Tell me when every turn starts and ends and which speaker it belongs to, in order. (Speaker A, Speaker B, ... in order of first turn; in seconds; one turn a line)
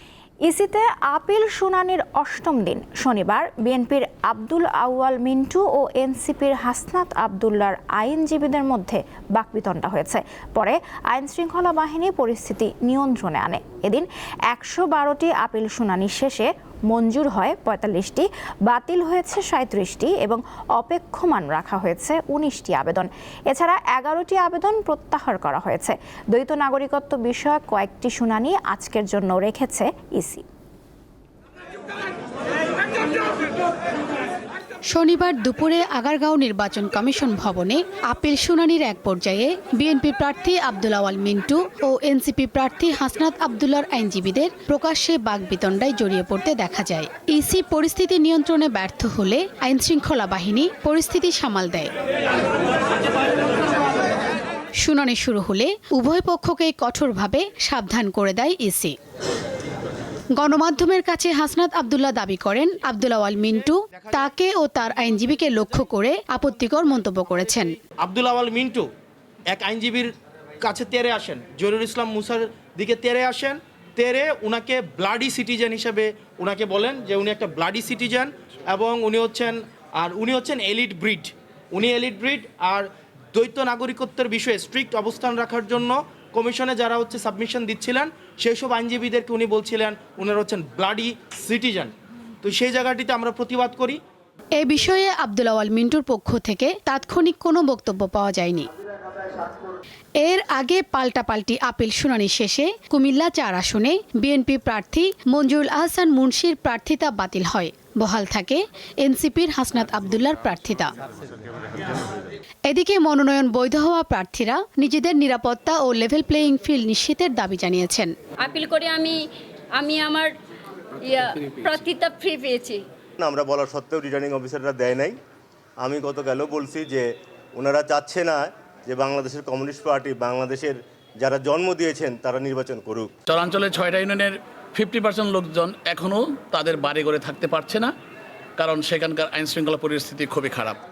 Speaker A: 0.5-30.4
Speaker B: 34.9-51.9
Speaker B: 54.8-59.0
Speaker B: 60.4-67.8
Speaker C: 64.0-64.3
Speaker C: 68.0-68.9
Speaker C: 69.5-94.0
Speaker B: 94.6-98.7
Speaker B: 100.2-110.9
Speaker B: 112.7-118.1
Speaker D: 118.4-119.2
Speaker D: 119.7-120.3
Speaker D: 121.0-122.8
Speaker E: 123.2-125.2
Speaker E: 125.8-133.1
Speaker F: 133.3-137.9
Speaker F: 138.6-140.8